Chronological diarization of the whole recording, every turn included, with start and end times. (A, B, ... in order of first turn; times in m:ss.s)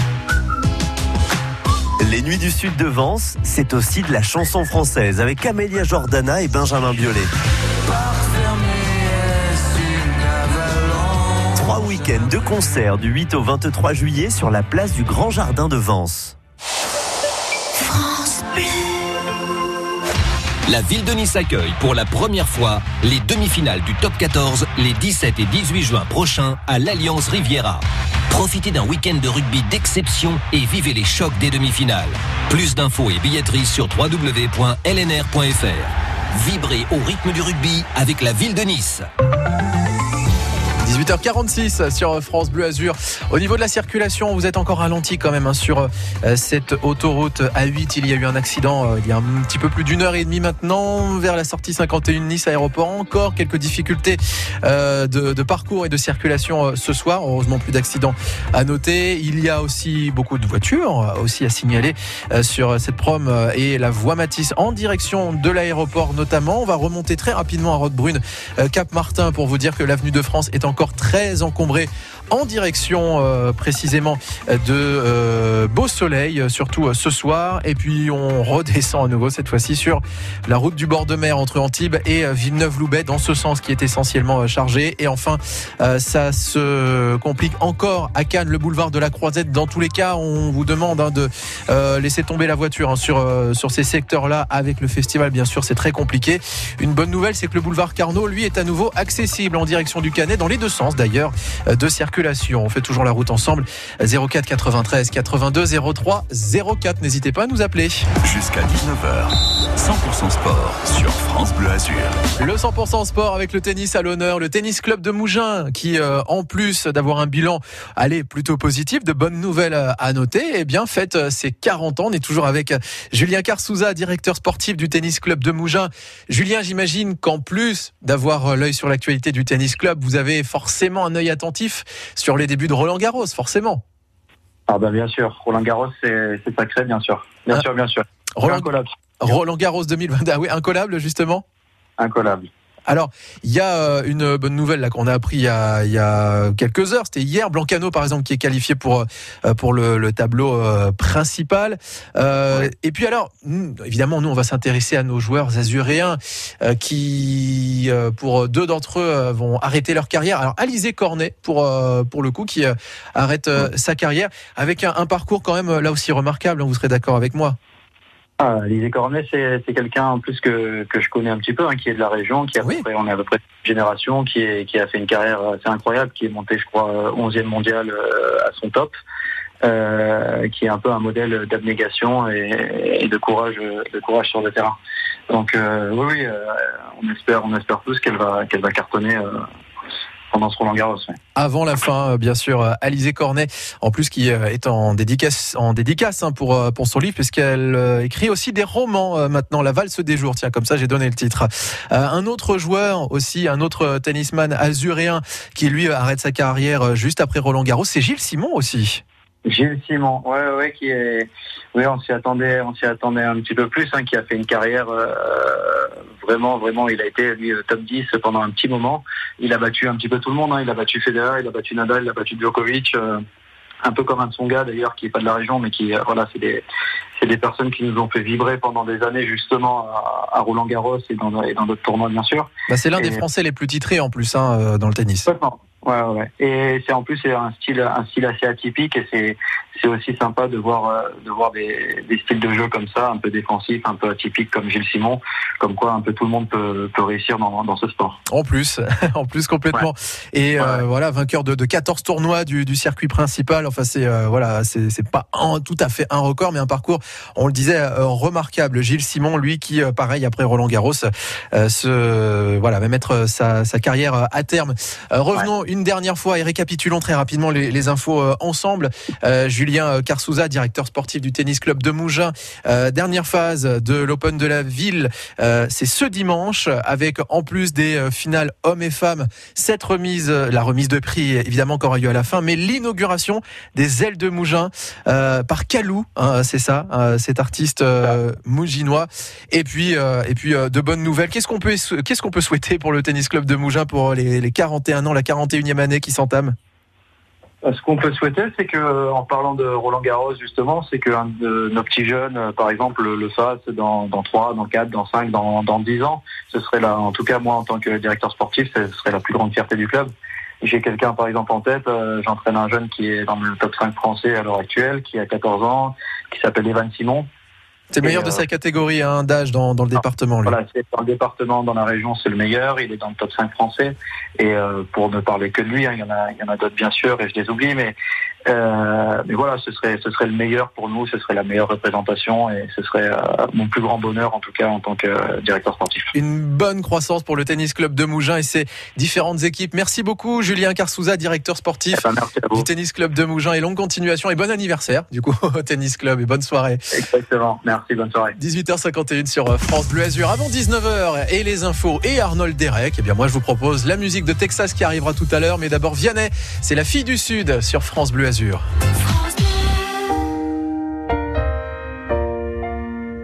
0:02.0-0:07.3 A
0:11.5-0:16.4 A
0:20.7-0:39.0 B
0:40.8-1:48.0 C
1:48.2-1:52.2 D
1:52.4-2:13.8 C
2:14.7-2:19.4 E
2:18.4-2:18.7 C
2:19.2-2:21.4 C
2:22.0-2:22.5 E
2:22.9-2:47.6 C
2:48.4-2:58.9 E
2:59.6-3:04.8 E
3:05.3-3:09.4 E
3:10.3-3:11.2 E
3:11.4-3:29.0 C
3:29.4-3:43.2 E
3:43.8-3:46.6 E
3:47.2-3:53.2 E
3:52.7-3:55.3 C
3:55.3-4:08.2 E
4:08.3-4:56.5 C
4:57.6-5:10.1 E
5:10.6-5:17.3 E
5:17.9-5:20.6 C
5:18.0-5:18.4 E
5:20.4-5:28.0 E
5:28.5-5:36.1 E
5:36.1-5:42.0 C
5:41.9-5:42.6 E
5:42.5-5:46.8 C
5:46.9-5:48.3 E
5:48.4-5:58.6 C